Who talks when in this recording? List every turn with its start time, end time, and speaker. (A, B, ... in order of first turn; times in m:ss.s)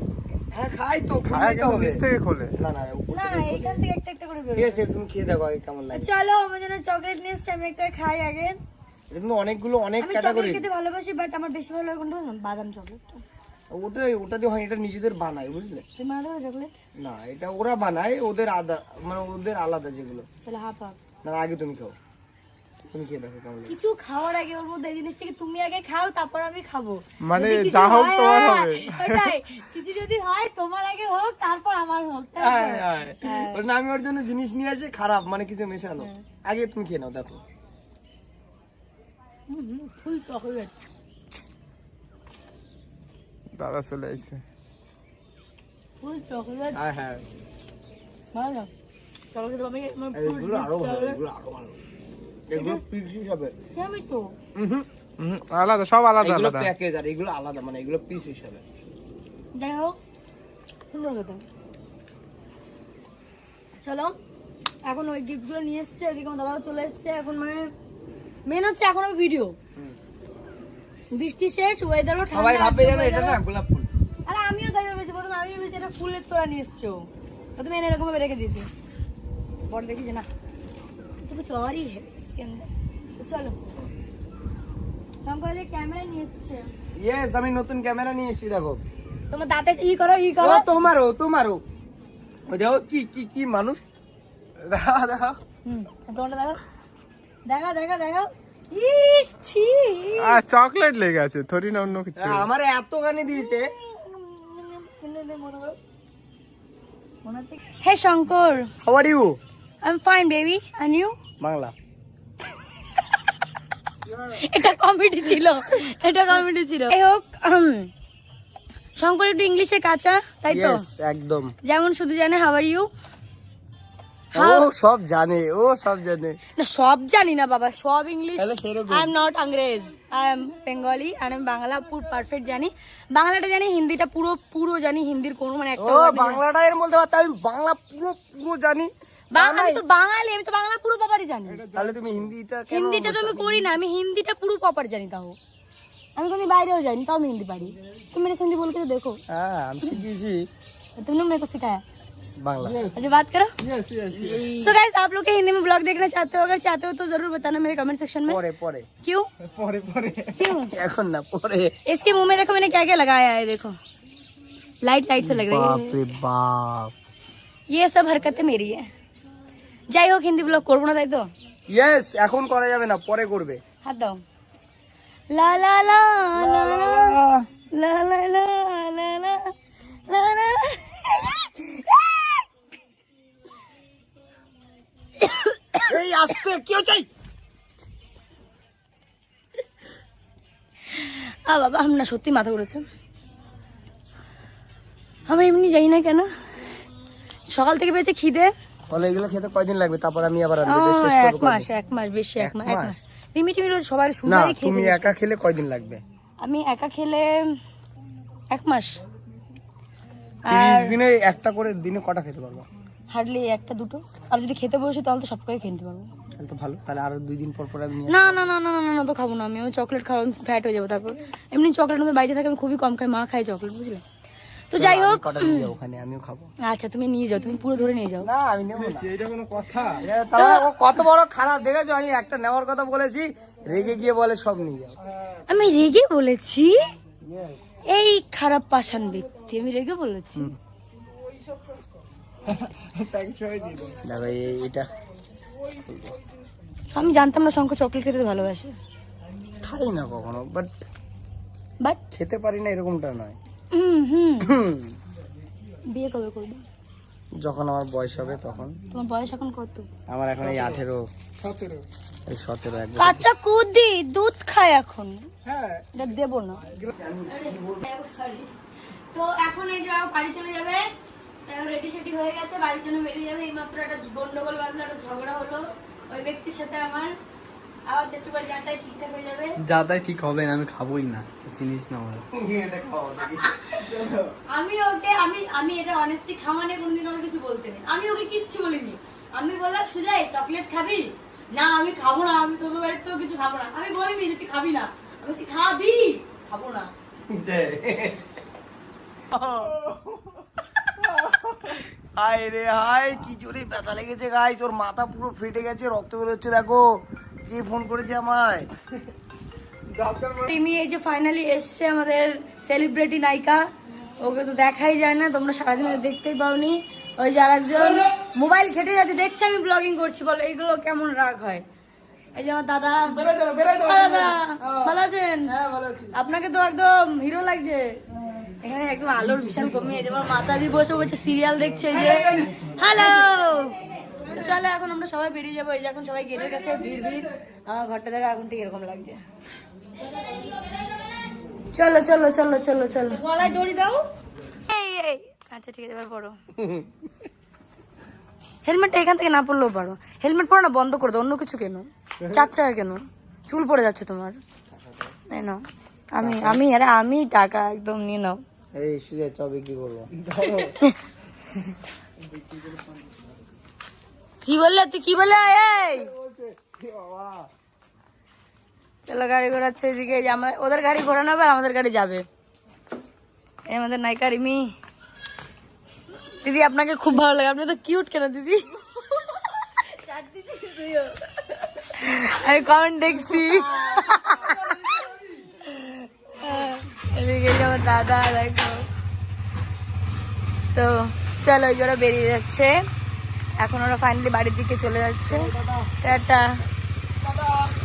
0:00.5-0:02.0 A
0:01.3-0:02.5 B
0:02.6-0:03.8 A
0:03.1-0:04.8 C
0:04.6-0:06.1 A
0:05.9-0:08.6 C
0:09.1-0:10.6 A
0:10.0-0:13.2 C
0:13.7-0:15.8 A
0:16.0-0:16.8 C
0:17.0-0:20.3 A
0:20.4-0:21.0 C
0:21.2-0:22.0 A
0:22.9-0:23.8 A
0:23.7-0:33.6 C
0:27.2-0:29.3 B
0:32.4-0:37.4 A
0:39.5-0:40.8 C
0:43.6-0:44.4 B
0:46.0-0:46.8 C
0:46.7-0:47.2 A
0:48.3-0:48.7 C
0:49.3-0:51.2 C
0:50.1-0:51.8 A
0:52.5-0:53.5 A
0:52.5-0:52.8 C
0:53.7-0:54.3 C
0:54.6-0:54.8 A
0:55.2-0:56.7 B
0:56.2-0:58.6 A
0:59.5-1:00.0 C
1:00.9-1:01.4 C
1:03.8-1:04.2 C
1:04.9-1:07.7 C
1:08.4-1:09.6 C
1:11.1-1:13.4 C
1:12.3-1:13.9 A
1:14.2-1:18.7 C
1:19.7-1:20.3 C
1:21.2-1:23.6 C
1:25.2-1:26.7 C
1:27.0-1:28.8 A
1:29.3-1:30.6 C
1:30.4-1:31.6 A
1:32.5-1:33.8 A
1:34.6-1:35.4 B
1:35.6-1:36.6 C
1:37.4-1:40.4 C
1:40.2-1:42.5 B
1:42.2-1:43.7 A
1:43.3-1:45.8 C
1:47.2-1:48.7 C
1:48.8-1:49.4 A
1:49.8-1:51.1 C
1:51.4-1:51.7 A
1:54.2-1:57.9 C
1:59.0-2:00.8 C
2:00.5-2:01.5 A
2:01.6-2:02.9 C
2:04.3-2:04.7 C
2:04.3-2:06.4 A
2:06.6-2:16.4 C
2:08.4-2:09.1 A
2:15.8-2:19.8 A
2:19.3-2:21.6 C
2:21.5-2:22.2 B
2:21.7-2:23.7 A
2:22.7-2:25.4 C
2:26.2-2:29.2 C
2:29.3-2:30.5 A
2:31.0-2:31.8 C
2:32.4-2:32.8 A
2:32.9-2:33.5 C
2:33.6-2:34.5 B
2:34.1-2:34.6 A
2:34.5-2:38.4 C
2:38.3-2:38.9 A
2:39.0-2:39.3 C
2:39.5-2:40.5 B
2:40.3-2:40.8 C
2:40.7-2:41.7 A
2:41.8-2:43.8 C
2:44.8-2:46.0 C
2:45.2-2:46.9 A
2:47.7-2:48.8 C
2:49.9-2:51.3 C
2:51.7-2:53.6 A
2:53.8-2:54.2 C
2:55.3-2:57.2 C
2:56.4-2:57.4 A
2:57.8-2:59.5 C
3:00.1-3:02.4 C
3:05.2-3:05.9 C
3:05.9-3:07.1 A
3:10.9-3:12.8 C
3:15.3-3:16.3 C
3:17.5-3:18.5 C
3:18.9-3:21.7 A
3:20.6-3:25.1 C
3:22.4-3:23.0 A
3:24.3-3:26.0 A
3:26.4-3:27.4 C
3:28.5-3:29.0 C
3:30.4-3:31.0 C
3:30.5-3:32.6 A
3:33.1-3:36.1 C
3:36.4-3:38.4 A
3:38.1-3:44.0 C
3:44.7-3:45.7 C
3:44.7-3:46.5 A
3:46.6-3:48.3 C
3:48.2-3:49.1 A
3:48.8-3:50.0 B
3:50.0-3:55.0 A
3:50.4-3:50.7 C
3:55.5-3:56.8 C
3:57.9-4:00.5 C
4:02.5-4:04.0 B
4:04.0-4:04.9 A
4:05.8-4:06.1 A
4:06.9-4:08.7 C
4:09.6-4:10.7 A
4:12.1-4:13.4 A
4:13.7-4:14.5 C
4:14.4-4:14.9 A
4:15.9-4:16.6 C
4:17.4-4:18.7 A
4:18.9-4:19.9 C
4:20.1-4:21.0 A
4:20.4-4:20.8 B
4:21.4-4:21.8 B
4:22.3-4:23.3 A
4:23.0-4:25.3 C
4:25.4-4:25.8 B
4:25.9-4:26.6 C
4:26.8-4:27.8 A
4:27.3-4:28.5 C
4:29.1-4:30.9 C
4:31.4-4:37.1 C
4:37.9-4:39.5 C
4:39.6-4:42.2 D
4:42.3-4:44.3 A
4:44.5-4:56.9 C
4:57.3-4:58.3 A
4:59.3-5:06.8 A
5:07.4-5:08.7 A
5:10.0-5:10.2 A
5:10.5-5:13.6 C
5:14.2-5:21.6 C
5:17.8-5:18.1 A
5:22.3-5:25.5 C
5:23.1-5:26.1 A
5:26.1-5:28.0 C
5:28.6-5:33.7 C
5:31.9-5:33.2 A
5:34.2-5:39.2 C
5:40.0-5:40.7 C
5:41.7-5:44.0 C
5:44.7-5:46.4 C
5:46.6-5:46.9 A
5:48.6-5:54.4 C
5:54.7-5:55.2 A
5:55.3-5:58.4 C
5:56.2-5:56.6 A
5:58.7-6:00.7 A
6:00.4-6:01.0 C
6:02.3-6:02.8 B
6:04.4-6:06.1 C
6:05.5-6:07.5 A
6:09.0-6:12.2 C
6:13.7-6:14.7 C
6:16.4-6:21.2 C
6:21.7-6:25.0 C
6:23.4-6:25.3 A
6:25.6-6:28.8 C
6:30.7-6:32.7 C
6:33.6-6:36.4 C
6:35.3-6:35.9 A
6:37.2-6:37.5 A